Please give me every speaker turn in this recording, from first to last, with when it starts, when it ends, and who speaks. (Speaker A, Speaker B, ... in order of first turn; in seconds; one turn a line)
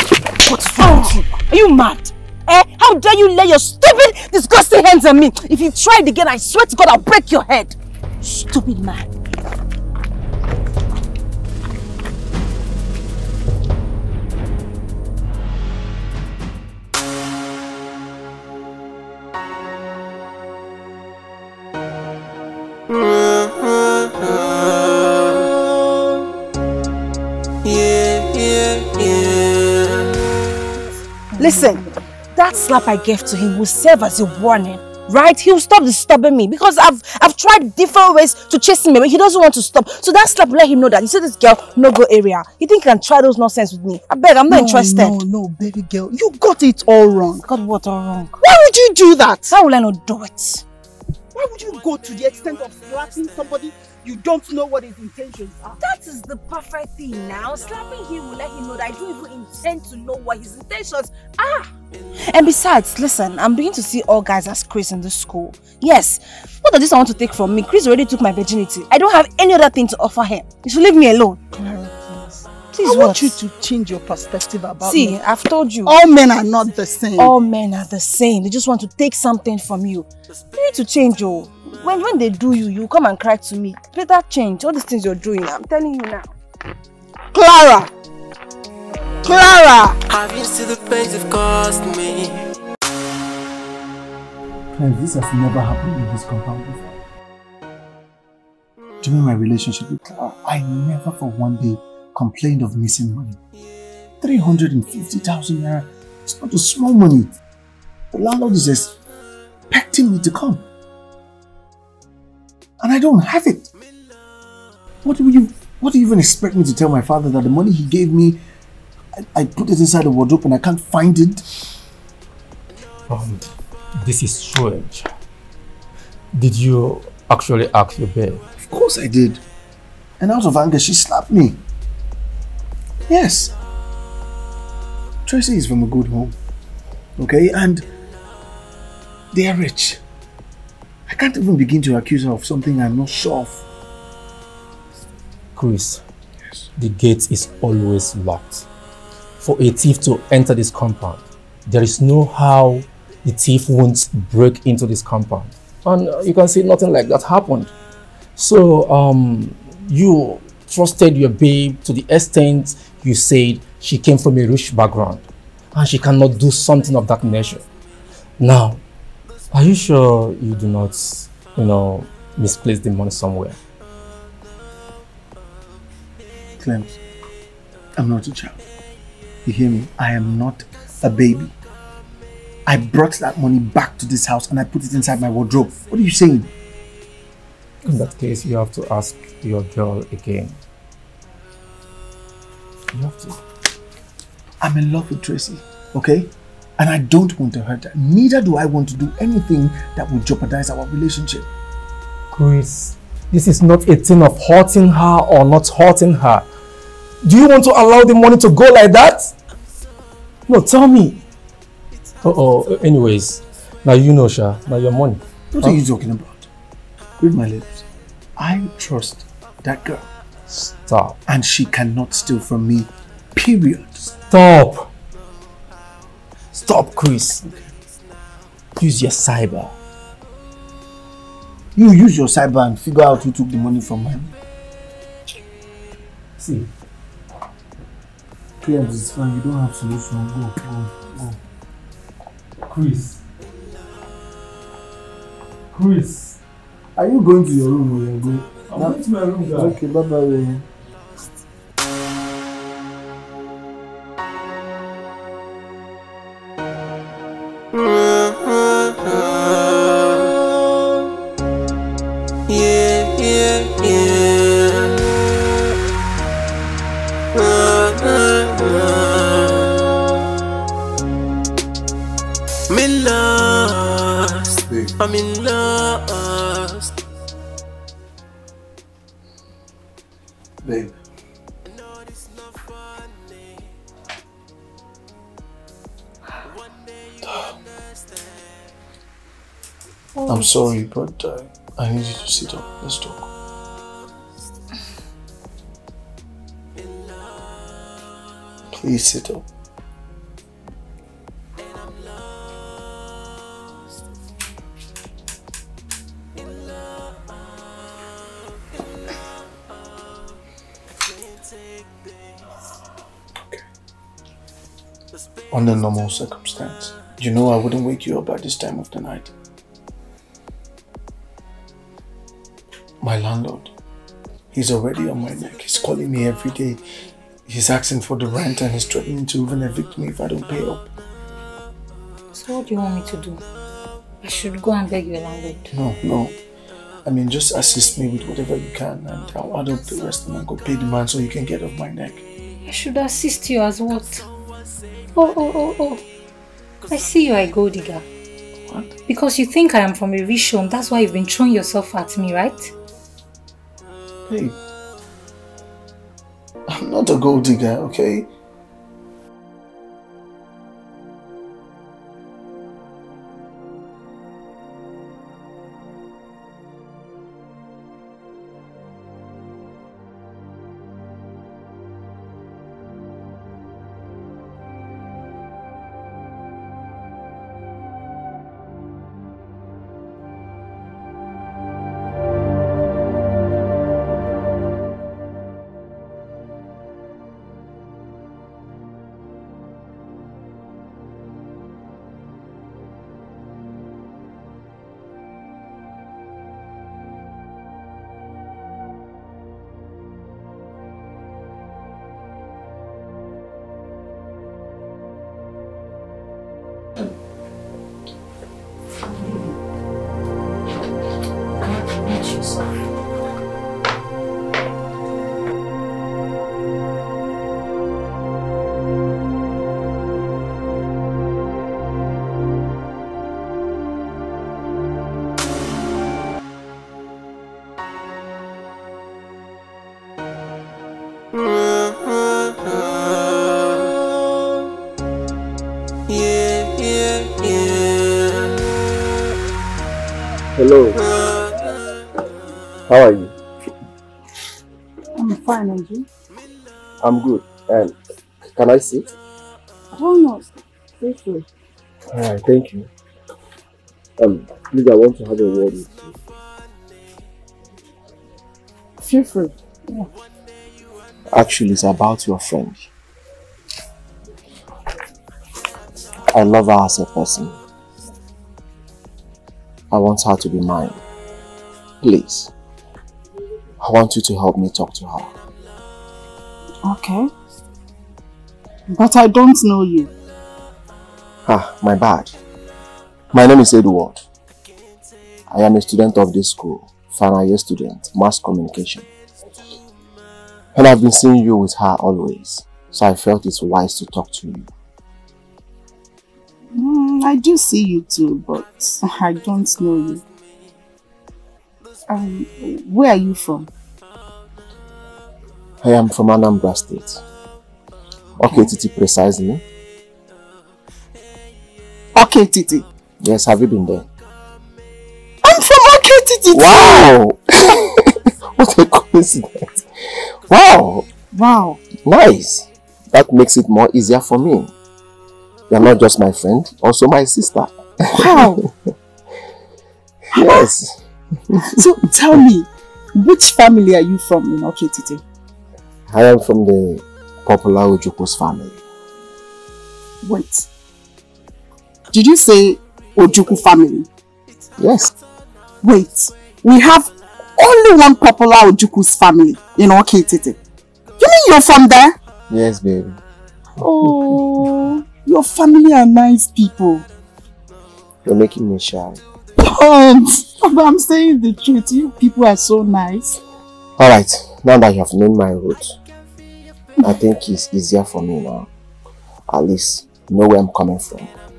Speaker A: 0.4-9.1
Speaker B: 27.6-29.8
Speaker A: 31.4-31.8
Speaker C: 31.4-31.9
Speaker A: 32.3-45.2
Speaker C: 44.5-47.4
Speaker A: 47.4-48.3
Speaker C: 48.4-49.5
Speaker A: 49.5-50.6
Speaker C: 51.3-55.8
Speaker A: 55.8-71.4
Speaker C: 71.5-75.2
Speaker A: 72.7-73.4
Speaker A: 74.8-75.9
Speaker C: 75.8-77.3
Speaker A: 77.2-86.3
Speaker C: 87.3-87.9
Speaker C: 89.2-90.0
Speaker B: 90.1-92.5
Speaker D: 94.7-96.8
Speaker D: 99.0-103.4
Speaker D: 104.2-107.3
Speaker D: 108.1-108.9
Speaker D: 109.7-110.6
Speaker D: 112.8-113.7
Speaker D: 115.0-118.4
Speaker D: 119.2-121.4
Speaker E: 123.1-125.1
Speaker E: 126.3-128.4
Speaker D: 128.6-129.4
Speaker D: 130.2-131.6
Speaker D: 133.1-133.5
Speaker D: 135.2-136.4
Speaker D: 137.2-137.8
Speaker D: 139.3-140.0
Speaker D: 141.1-143.6
Speaker E: 145.6-146.0
Speaker E: 146.8-148.7
Speaker E: 149.4-157.7
Speaker E: 158.3-167.6
Speaker E: 168.4-168.8
Speaker E: 169.5-173.6
Speaker D: 176.6-177.0
Speaker D: 178.0-178.6
Speaker D: 179.4-181.5
Speaker D: 182.7-186.5
Speaker E: 187.8-190.6
Speaker E: 192.9-193.3
Speaker D: 194.6-201.5
Speaker E: 202.3-206.5
Speaker E: 207.2-209.3
Speaker E: 210.5-211.2
Speaker E: 212.2-215.8
Speaker D: 215.5-216.5
Speaker D: 217.2-217.8
Speaker D: 218.4-220.1
Speaker E: 220.5-221.2
Speaker D: 221.3-224.0
Speaker E: 224.0-224.9
Speaker E: 226.5-227.4
Speaker E: 228.8-229.7
Speaker D: 231.7-234.3
Speaker E: 236.4-236.7
Speaker D: 238.6-241.4
Speaker E: 242.7-243.2
Speaker E: 245.7-246.4
Speaker D: 246.9-249.0
Speaker E: 248.7-249.8
Speaker D: 249.5-250.7
Speaker B: 262.5-265.0
Speaker B: 267.3-269.7
Speaker B: 272.7-276.9
Speaker D: 274.7-274.9
Speaker D: 280.6-280.9
Speaker F: 290.1-290.6
Speaker D: 290.2-293.3
Speaker D: 298.7-299.4
Speaker D: 315.5-319.3
Speaker D: 323.0-323.7
Speaker D: 324.5-326.8
Speaker D: 327.5-330.9
Speaker F: 332.3-333.4
Speaker F: 334.2-335.7
Speaker D: 335.7-336.4
Speaker D: 337.0-342.2
Speaker F: 342.6-344.2
Speaker F: 345.1-346.0
Speaker F: 346.9-348.1
Speaker D: 348.7-348.9
Speaker F: 349.1-352.7
Speaker D: 354.2-354.6
Speaker D: 356.7-358.3
Speaker F: 409.1-409.5
Speaker F: 411.7-412.6
Speaker B: 436.1-438.2
Speaker G: 440.6-441.0
Speaker G: 442.9-443.3
Speaker C: 445.1-446.1
Speaker G: 447.0-447.9
Speaker G: 448.5-449.1
Speaker C: 449.9-451.4
Speaker G: 452.1-452.9
Speaker G: 454.2-456.1
Speaker C: 459.0-460.1
Speaker G: 461.3-462.9
Speaker G: 466.3-467.6
Speaker G: 469.9-471.0
Speaker G: 472.0-472.5
Speaker G: 473.8-475.3
Speaker C: 476.8-477.3
Speaker C: 478.9-480.1
Speaker G: 481.4-482.3
Speaker G: 483.3-484.2
Speaker G: 485.5-489.1
Speaker G: 490.7-494.7
Speaker C: 496.8-500.2
Speaker C: 502.1-503.7
Speaker G: 505.8-507.2
Speaker G: 508.4-509.6
Speaker C: 512.1-512.9
Speaker G: 513.2-514.1
Speaker C: 515.4-517.1
Speaker G: 516.5-517.9
Speaker G: 518.5-519.8
Speaker G: 520.5-521.0
Speaker C: 521.3-521.8
Speaker G: 522.0-524.7
Speaker G: 525.7-528.7
Speaker C: 528.1-528.6
Speaker G: 530.3-531.0
Speaker C: 530.4-530.6
Speaker C: 531.6-535.2
Speaker G: 536.1-538.8
Speaker C: 540.2-540.7
Speaker C: 542.1-544.1
Speaker G: 544.8-545.1
Speaker C: 545.8-550.6
Speaker C: 551.2-552.2
Speaker G: 552.5-553.2
Speaker C: 553.8-557.0
Speaker G: 558.2-559.2
Speaker C: 559.6-563.4
Speaker G: 564.0-565.9
Speaker G: 567.0-568.7
Speaker G: 569.5-571.3